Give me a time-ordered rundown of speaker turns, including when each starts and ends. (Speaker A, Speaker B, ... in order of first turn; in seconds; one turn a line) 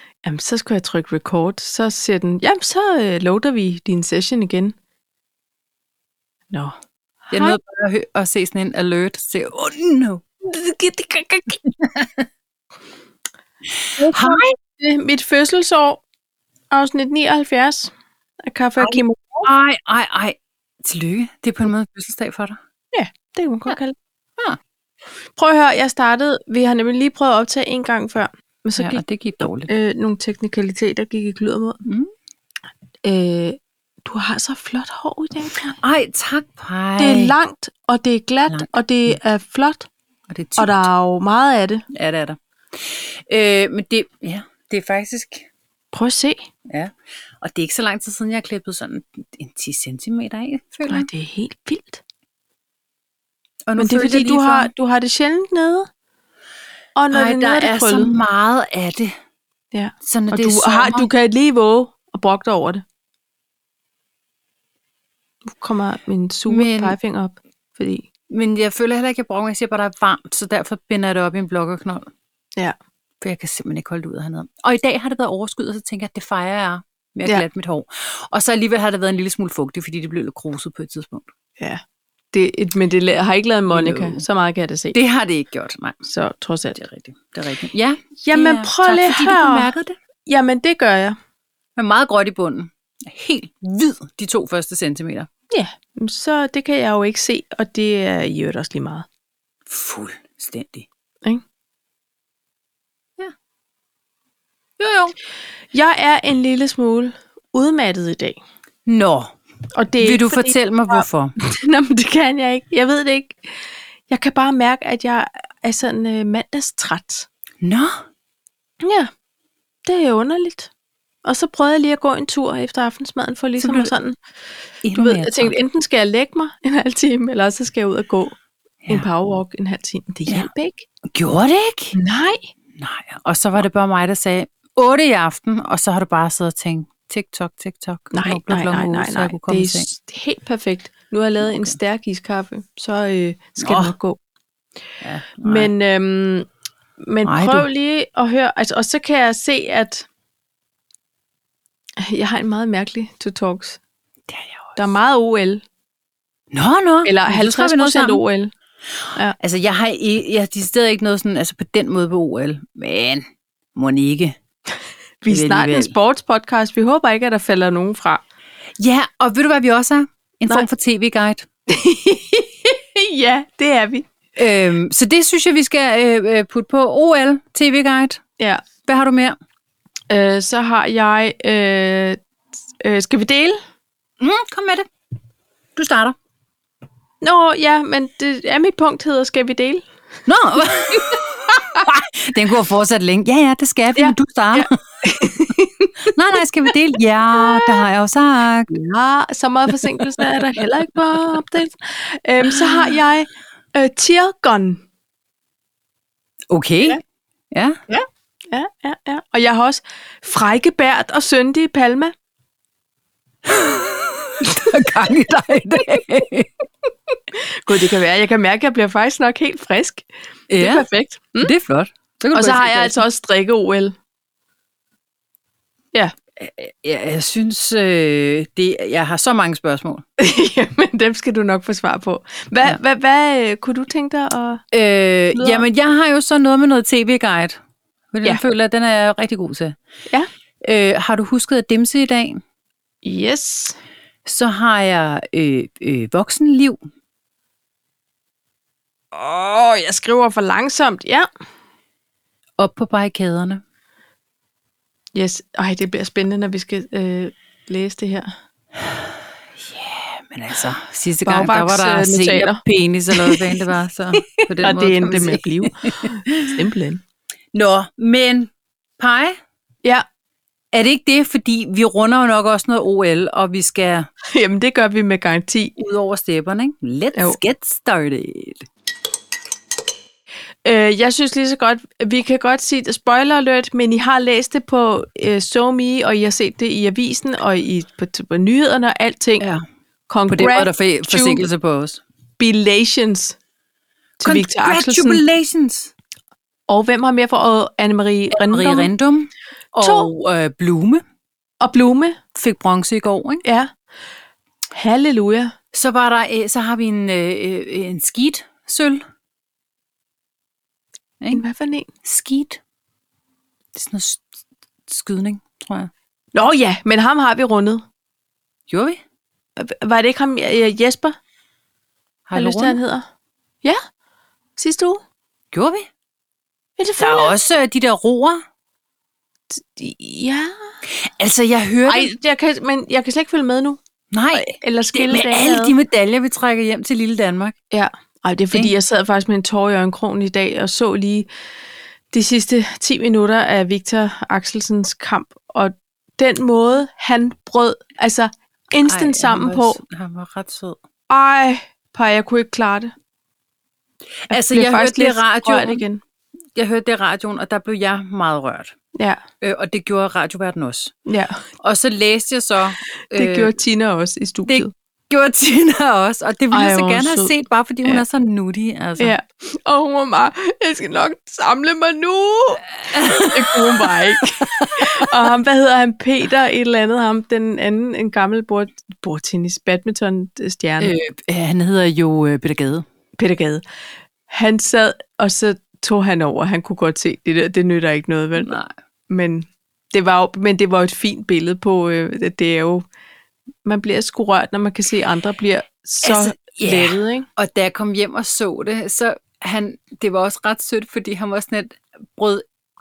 Speaker A: 0.2-4.7
Speaker A: 7.3-7.6
Speaker B: 7.3-10.2
Speaker A: 10.4-11.6
Speaker B: 11.8-12.2
Speaker A: 14.0-16.0
Speaker B: 14.1-14.5
Speaker A: 16.7-17.9
Speaker A: 18.4-19.5
Speaker B: 18.8-22.6
Speaker A: 22.9-23.9
Speaker A: 25.4-29.0
Speaker B: 28.8-29.7
Speaker A: 29.7-31.8
Speaker B: 31.8-32.1
Speaker A: 33.0-35.8
Speaker B: 35.6-37.4
Speaker A: 37.0-39.9
Speaker B: 38.5-39.1
Speaker B: 40.3-40.9
Speaker A: 40.6-41.8
Speaker B: 41.9-45.5
Speaker A: 45.9-46.5
Speaker B: 46.6-51.1
Speaker A: 50.9-52.0
Speaker B: 53.7-54.7
Speaker A: 53.8-55.9
Speaker A: 57.0-58.1
Speaker B: 57.1-59.1
Speaker A: 59.7-62.8
Speaker B: 60.0-61.1
Speaker A: 65.5-68.1
Speaker B: 66.5-67.0
Speaker B: 68.3-72.1
Speaker B: 73.2-81.3
Speaker A: 81.6-85.0
Speaker B: 83.7-84.2
Speaker B: 84.9-86.0
Speaker A: 86.0-86.8
Speaker B: 86.8-90.0
Speaker A: 88.2-89.7
Speaker A: 90.2-91.2
Speaker B: 91.8-95.3
Speaker A: 95.5-99.0
Speaker B: 99.7-100.9
Speaker B: 104.8-105.1
Speaker A: 105.7-108.4
Speaker B: 108.8-109.3
Speaker A: 109.7-113.5
Speaker B: 110.0-111.3
Speaker A: 114.1-117.3
Speaker B: 117.6-118.0
Speaker A: 118.8-119.1
Speaker A: 119.8-120.7
Speaker A: 121.2-124.2
Speaker B: 123.6-123.9
Speaker B: 124.8-125.6
Speaker A: 124.9-130.8
Speaker B: 131.1-131.9
Speaker A: 131.9-132.5
Speaker B: 132.7-139.8
Speaker A: 138.1-144.2
Speaker B: 141.4-141.8
Speaker B: 143.6-143.9
Speaker B: 145.0-145.7
Speaker A: 145.4-146.5
Speaker A: 147.0-150.1
Speaker B: 147.2-147.7
Speaker A: 152.0-153.8
Speaker B: 154.3-154.9
Speaker A: 154.8-155.6
Speaker B: 156.5-158.2
Speaker A: 157.0-158.5
Speaker B: 159.4-164.4
Speaker A: 165.2-168.2
Speaker B: 165.3-165.9
Speaker B: 168.8-171.5
Speaker A: 171.7-174.1
Speaker B: 174.3-178.2
Speaker A: 178.4-178.6
Speaker B: 178.8-179.3
Speaker A: 180.1-182.2
Speaker A: 182.8-183.6
Speaker B: 184.2-184.9
Speaker B: 185.8-186.2
Speaker A: 187.2-189.8
Speaker B: 190.3-194.7
Speaker A: 190.6-191.9
Speaker A: 193.9-196.2
Speaker B: 196.1-198.7
Speaker A: 197.3-197.8
Speaker A: 198.7-204.8
Speaker B: 202.4-202.9
Speaker B: 206.5-207.8
Speaker A: 207.9-212.1
Speaker B: 213.4-216.5
Speaker A: 214.4-214.7
Speaker A: 217.3-221.5
Speaker B: 220.5-220.8
Speaker B: 221.4-223.0
Speaker A: 222.3-223.9
Speaker B: 226.4-230.0
Speaker A: 230.2-234.6
Speaker B: 234.7-237.6
Speaker A: 235.3-235.7
Speaker B: 238.1-239.8
Speaker B: 240.6-242.4
Speaker A: 243.0-243.8
Speaker B: 244.2-246.8
Speaker A: 249.1-251.3
Speaker B: 252.6-253.6
Speaker A: 255.1-258.3
Speaker B: 259.6-266.5
Speaker A: 261.2-263.5
Speaker A: 264.2-267.0
Speaker B: 267.5-269.4
Speaker B: 270.7-274.1
Speaker A: 274.3-275.8
Speaker B: 275.8-278.7
Speaker A: 280.6-289.4
Speaker A: 290.1-291.5
Speaker B: 290.3-292.0
Speaker A: 292.4-293.4
Speaker A: 294.2-295.2
Speaker B: 294.2-295.9
Speaker A: 296.7-298.9
Speaker B: 298.3-301.0
Speaker A: 299.8-300.1
Speaker A: 301.6-302.2
Speaker B: 302.3-303.4
Speaker A: 303.4-303.7
Speaker A: 304.7-305.5
Speaker B: 305.7-309.0
Speaker A: 311.3-311.9
Speaker B: 312.0-312.6
Speaker B: 313.7-314.3
Speaker B: 314.9-315.9
Speaker A: 316.3-317.8
Speaker B: 318.7-319.0
Speaker A: 319.6-321.2
Speaker B: 322.3-322.8
Speaker A: 322.3-323.1
Speaker A: 324.6-325.0
Speaker B: 325.5-325.9
Speaker A: 326.8-327.4
Speaker B: 327.0-328.4
Speaker A: 329.5-330.7
Speaker B: 330.9-332.1
Speaker A: 331.9-333.8
Speaker B: 334.1-337.5
Speaker A: 334.3-335.7
Speaker A: 337.7-341.3
Speaker A: 342.1-349.8
Speaker B: 348.8-350.8
Speaker A: 351.1-352.9
Speaker B: 354.3-355.8
Speaker A: 354.3-356.0
Speaker B: 356.6-358.7
Speaker A: 358.9-359.2
Speaker B: 359.4-360.9
Speaker A: 361.1-361.4
Speaker B: 361.6-363.5
Speaker A: 363.1-364.7
Speaker B: 364.5-369.1
Speaker A: 366.5-367.3
Speaker A: 369.0-380.9
Speaker B: 372.8-375.1
Speaker B: 380.8-382.9
Speaker A: 383.2-383.6
Speaker A: 384.3-388.5
Speaker B: 388.4-388.7
Speaker A: 389.1-392.8
Speaker A: 393.6-397.3
Speaker B: 396.0-402.4